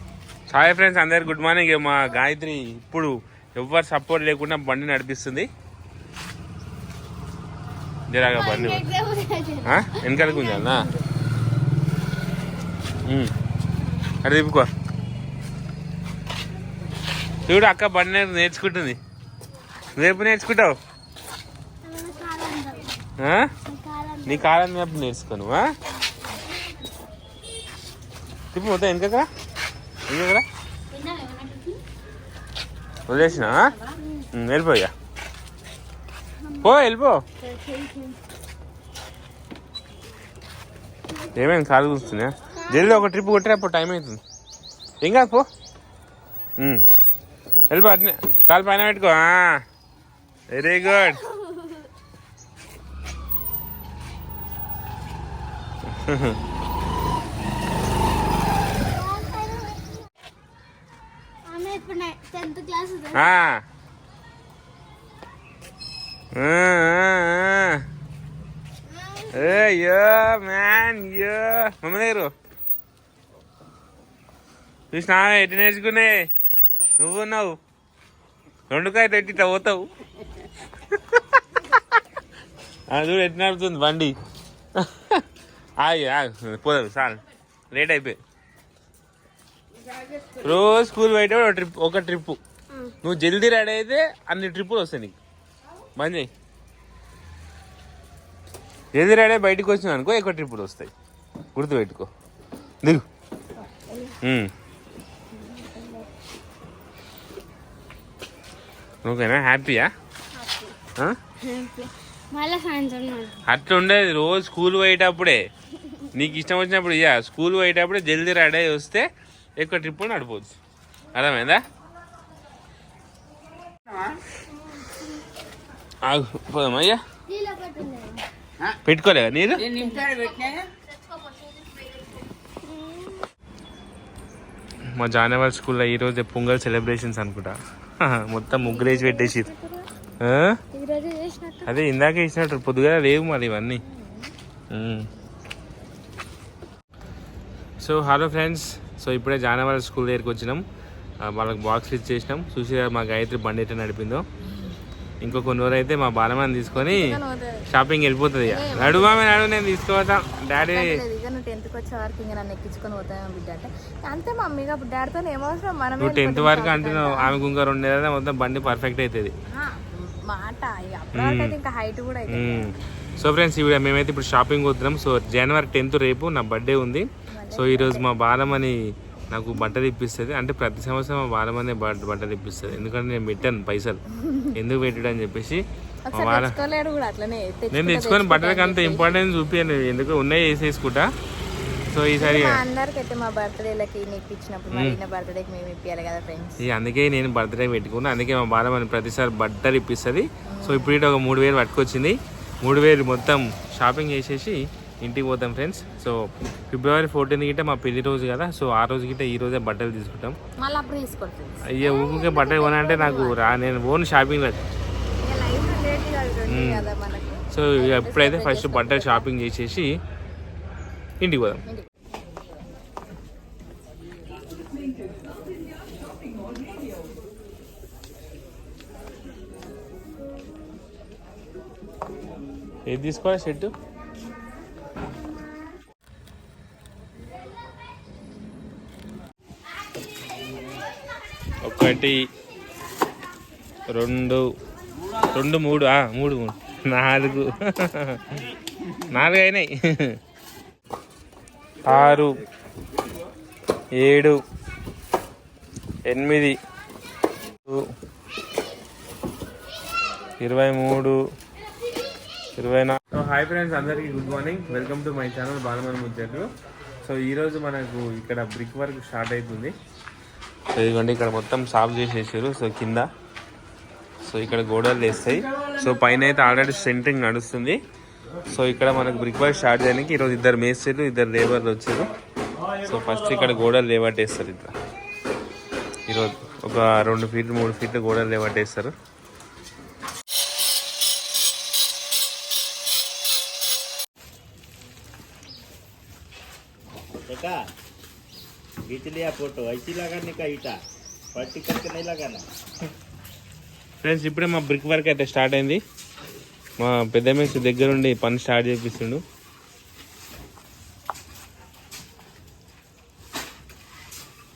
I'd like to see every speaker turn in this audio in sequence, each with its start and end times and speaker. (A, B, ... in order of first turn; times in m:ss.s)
0:00.5-0:05.5 A
0:08.1-0:08.9 A
0:08.2-0:11.0 B
0:09.7-0:10.9 A
0:13.0-0:13.3 A
0:14.2-0:14.7 A
0:17.5-0:19.0 A
0:20.0-0:20.8 A
0:21.8-0:22.9 B
0:23.2-0:23.5 A
0:23.7-0:24.5 B
0:24.3-0:25.7 A
0:28.5-0:29.3 A
0:30.1-0:30.4 A
0:30.9-0:31.8 B
0:33.1-0:33.7 A
0:33.2-0:34.2 B
0:34.3-0:34.9 A
0:36.4-0:36.8 B
0:36.6-0:37.2 A
0:37.4-0:38.2 B
0:41.3-0:44.2 A
0:42.6-0:43.0 B
0:45.0-0:45.4 A
0:46.6-0:46.8 A
0:47.7-0:49.6 A
0:50.5-0:51.2 A
0:51.0-0:51.7 B
0:55.9-0:56.4 A
0:58.9-0:59.9 B
1:01.5-1:03.4 B
1:03.1-1:03.6 A
1:06.3-1:07.8 A
1:08.9-1:09.7 B
1:09.3-1:12.3 A
1:14.9-1:16.3 A
1:17.0-1:17.6 A
1:18.7-1:19.9 A
1:20.9-1:21.4 A
1:22.9-1:24.1 A
1:24.8-1:25.2 A
1:25.8-1:27.2 A
1:27.7-1:28.2 A
1:30.4-1:32.4 A
1:33.0-1:35.2 A
1:36.0-1:36.3 A
1:38.9-1:40.9 A
1:41.5-1:42.1 A
1:43.7-1:44.1 B
1:44.2-1:44.5 A
1:45.3-1:46.1 B
1:49.0-1:49.9 A
1:50.4-1:50.7 B
1:51.4-1:53.4 B
1:53.4-1:55.4 A
1:56.1-1:59.1 A
1:59.6-2:00.6 A
2:01.1-2:01.6 A
2:06.0-2:07.0 A
2:07.3-2:08.2 B
2:08.8-2:09.8 A
2:09.6-2:10.6 B
2:12.6-2:13.2 B
2:14.9-2:19.5 A
2:18.6-2:19.8 C
2:20.2-2:20.6 A
2:20.8-2:21.7 B
2:21.7-2:23.8 A
2:23.8-2:24.3 C
2:24.7-2:25.1 A
2:27.8-2:30.6 A
2:31.2-2:34.2 A
2:35.2-2:37.2 A
2:36.8-2:37.6 C
2:37.7-2:41.0 A
2:38.4-2:39.2 C
2:40.7-2:47.4 C
2:46.0-2:49.3 A
2:49.5-2:52.7 C
2:51.1-2:51.6 A
2:52.3-3:04.0 A
2:57.3-2:58.1 C
3:04.2-3:04.5 C
3:04.5-3:06.5 A
3:06.1-3:09.1 C
3:07.7-3:11.1 A
3:11.9-3:12.6 A
3:12.2-3:16.6 C
3:14.7-3:15.0 A
3:16.6-3:30.3 A
3:20.5-3:21.0 C
3:30.6-3:33.4 C
3:31.7-3:34.6 A
3:35.2-3:39.3 C
3:36.5-3:36.9 A
3:37.5-3:39.9 A
3:41.2-3:41.6 A
3:52.9-3:53.7 A
4:01.6-4:02.2 A
4:03.9-4:04.4 A
4:05.3-4:08.2 A
4:09.1-4:10.2 A
4:11.8-4:12.4 A
4:14.0-4:14.4 A
4:16.1-4:16.6 A
4:20.4-4:21.2 A
4:22.6-4:26.5 A
4:27.0-4:29.7 A
4:30.7-4:33.1 A
4:34.2-4:37.8 A
4:38.5-4:42.1 A
4:42.8-4:44.7 A
4:46.1-4:48.9 A
4:57.3-4:57.6 D
4:58.8-5:00.8 D
5:01.4-5:02.4 D
5:04.0-5:05.8 A
5:06.8-5:09.2 A